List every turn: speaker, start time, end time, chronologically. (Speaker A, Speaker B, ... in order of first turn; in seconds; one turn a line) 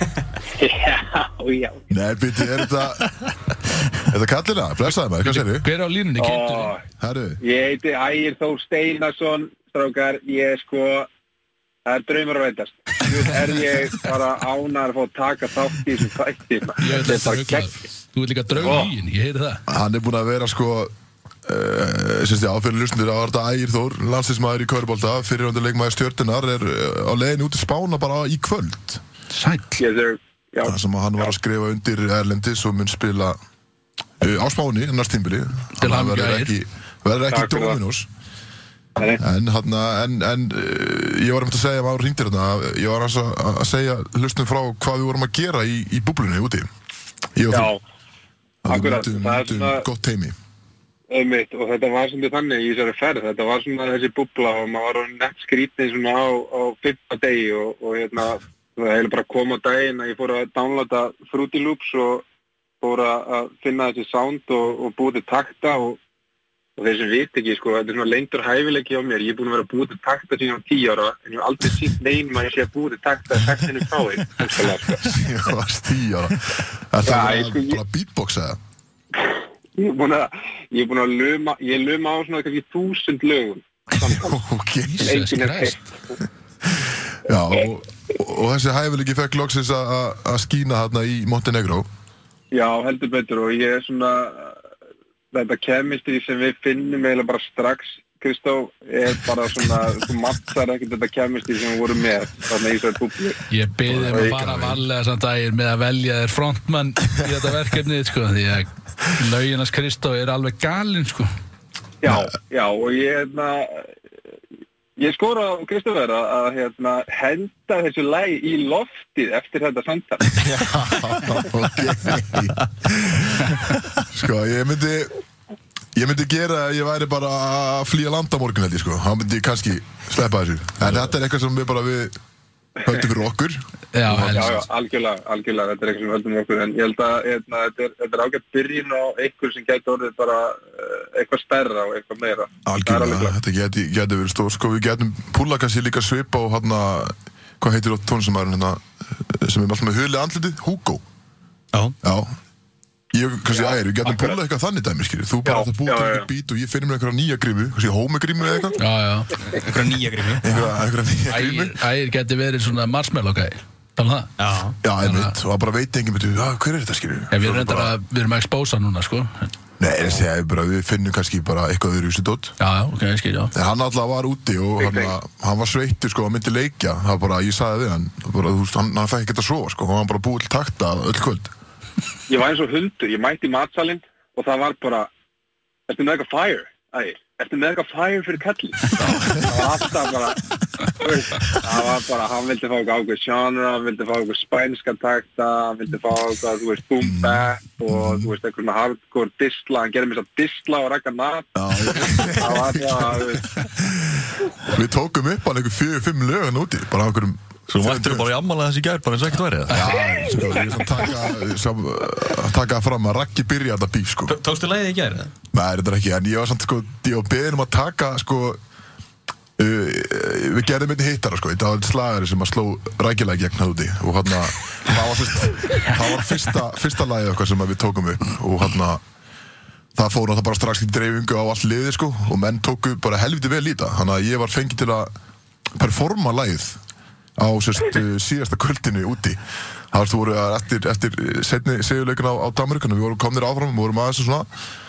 Speaker A: 0.5-1.9
Speaker B: 1.9-3.1
Speaker B: 4.0-5.7
Speaker C: 5.2-6.7
Speaker A: 6.2-6.8
Speaker B: 7.0-7.4
Speaker A: 7.4-11.1
Speaker A: 11.8-17.7
Speaker C: 16.8-19.6
Speaker B: 18.6-18.8
Speaker A: 18.6-18.9
Speaker B: 19.7-20.9
Speaker B: 21.5-29.0
Speaker C: 29.3-29.8
Speaker A: 29.8-31.3
Speaker B: 30.6-33.4
Speaker B: 34.2-38.1
Speaker C: 35.8-36.5
Speaker A: 37.3-37.8
Speaker B: 39.2-46.7
Speaker B: 47.4-47.7
Speaker A: 47.5-47.8
Speaker B: 48.6-50.3
Speaker A: 48.7-49.9
Speaker A: 51.1-62.2
Speaker A: 62.8-66.0
Speaker A: 66.8-75.2
Speaker B: 75.0-78.6
Speaker A: 77.0-77.8
Speaker A: 79.2-84.4
Speaker B: 84.0-85.2
Speaker C: 84.9-85.8
Speaker A: 85.0-86.2
Speaker B: 86.8-91.9
Speaker A: 92.5-94.6
Speaker A: 95.3-103.4
Speaker C: 103.5-111.3
Speaker B: 103.9-104.8
Speaker A: 104.1-104.4
Speaker A: 112.0-113.9
Speaker A: 115.0-120.4
Speaker B: 120.4-123.6
Speaker B: 124.1-125.1
Speaker B: 126.0-132.1
Speaker B: 132.8-134.7
Speaker C: 133.9-134.5
Speaker A: 134.3-143.4
Speaker B: 142.7-151.0
Speaker B: 152.0-152.3
Speaker B: 153.1-158.8
Speaker A: 153.5-154.4
Speaker A: 155.4-156.3
Speaker C: 158.8-159.6
Speaker D: 159.6-160.7
Speaker B: 160.4-161.8
Speaker C: 161.3-164.3
Speaker D: 164.4-164.8
Speaker B: 164.8-167.9
Speaker C: 164.9-165.3
Speaker C: 167.3-169.5
Speaker B: 169.8-172.6
Speaker C: 172.6-173.5
Speaker B: 173.5-181.5
Speaker A: 174.8-175.2
Speaker A: 182.3-185.1
Speaker A: 185.9-190.4
Speaker A: 190.9-203.5
Speaker B: 197.0-198.3
Speaker B: 201.6-208.3
Speaker E: 207.7-209.9
Speaker B: 209.7-214.3
Speaker D: 214.3-215.3
Speaker B: 215.5-218.6
Speaker B: 219.6-229.0
Speaker B: 230.0-235.1
Speaker B: 235.8-236.8
Speaker B: 237.4-239.4
Speaker B: 239.9-244.5